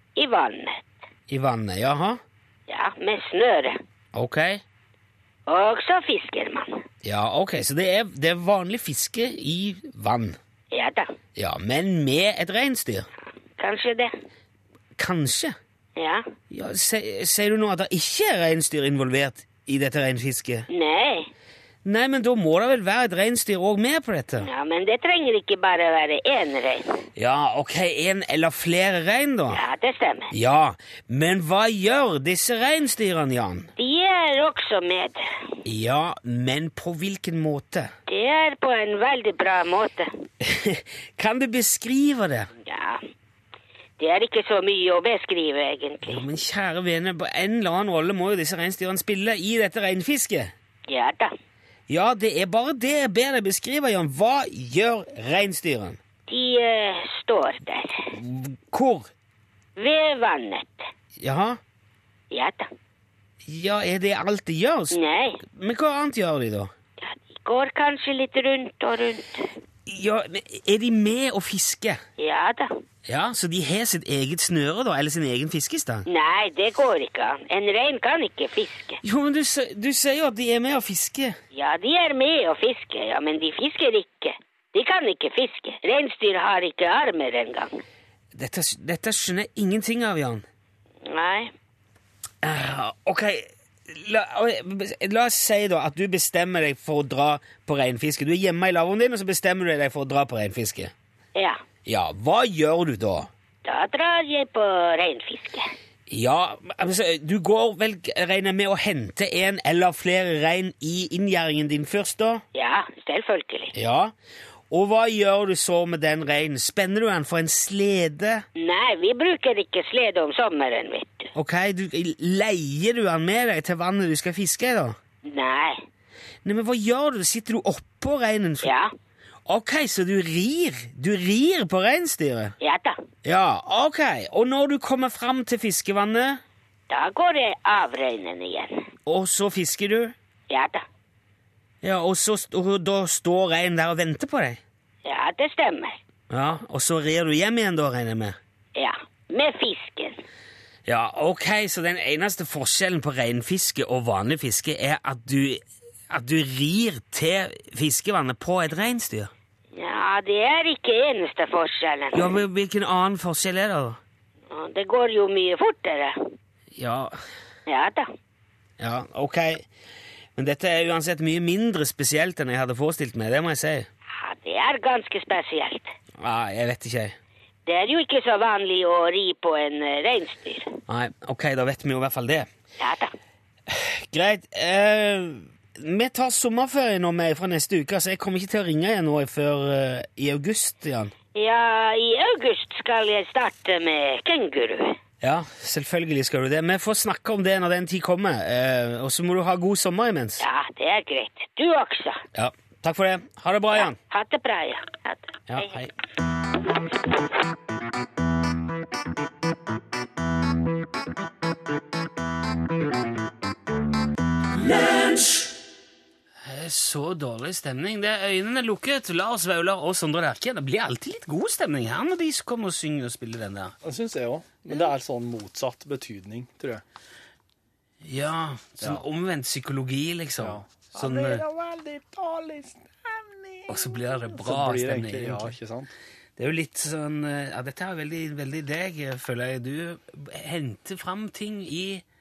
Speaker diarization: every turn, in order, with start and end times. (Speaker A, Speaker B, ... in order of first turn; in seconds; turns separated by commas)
Speaker A: 0.2-0.8, Speaker B: 1.3-2.2, Speaker A: 2.7-3.8, Speaker B: 4.1-4.6, Speaker A: 5.5-6.8, Speaker B: 7.0-10.4, Speaker A: 10.7-11.1, Speaker B: 11.3-13.1, Speaker A: 13.6-14.1, Speaker B: 15.0-15.6, Speaker A: 16.0-16.2, Speaker B: 16.5-20.7, Speaker A: 20.7-21.3, Speaker B: 21.8-24.5, Speaker A: 24.4-27.0, Speaker B: 27.1-29.6, Speaker A: 29.5-30.3, Speaker B: 30.3-33.7, Speaker A: 33.8-35.2, Speaker B: 35.6-37.9, Speaker A: 38.1-40.1, Speaker B: 40.4-42.5, Speaker A: 42.6-43.0, Speaker A: 44.0-46.2, Speaker B: 46.0-50.5, Speaker A: 50.9-51.3, Speaker B: 51.9-56.0, Speaker A: 56.3-58.0, Speaker B: 58.1-59.1, Speaker A: 59.8-60.9, Speaker B: 61.2-61.6, Speaker A: 62.3-62.7, Speaker B: 63.5-66.7, Speaker A: 64.9-65.4, Speaker A: 67.0-69.5, Speaker B: 69.8-72.0, Speaker A: 72.2-72.7, Speaker B: 73.0-76.0, Speaker A: 76.0-79.0, Speaker B: 79.0-81.4, Speaker A: 81.5-87.8, Speaker B: 88.3-90.4, Speaker A: 91.0-91.5, Speaker B: 92.4-100.9, Speaker B: 101.8-103.3, Speaker A: 103.6-105.7, Speaker B: 106.1-112.4, Speaker A: 112.5-113.7, Speaker B: 113.7-114.1, Speaker B: 114.7-118.4, Speaker A: 118.5-121.3, Speaker B: 121.3-125.0, Speaker A: 125.2-125.8, Speaker B: 126.4-128.7, Speaker A: 128.6-128.9, Speaker B: 129.4-132.5, Speaker A: 132.6-133.0, Speaker B: 133.2-136.4, Speaker A: 136.9-138.8, Speaker B: 139.1-140.1, Speaker A: 140.5-140.8, Speaker B: 141.8-144.6, Speaker A: 145.0-146.0, Speaker B: 146.3-148.4, Speaker A: 148.8-150.2, Speaker B: 150.8-159.3, Speaker A: 159.7-162.4, Speaker B: 162.1-164.0, Speaker A: 164.5-166.2, Speaker B: 166.7-167.2, Speaker A: 167.7-168.1, Speaker B: 168.8-169.6, Speaker B: 170.3-173.9, Speaker A: 174.1-175.9, Speaker B: 176.2-177.2, Speaker A: 177.7-180.7, Speaker B: 180.9-182.5, Speaker A: 182.8-183.1, Speaker B: 183.7-191.1, Speaker A: 191.3-195.0, Speaker B: 195.2-200.4, Speaker A: 200.4-202.2, Speaker B: 202.3-204.0, Speaker A: 203.8-205.7, Speaker B: 205.5-205.9, Speaker B: 216.4-223.7, Speaker C: 223.8-226.8, Speaker B: 228.0-231.4, Speaker C: 230.4-235.9, Speaker B: 233.7-235.5, Speaker B: 236.4-242.0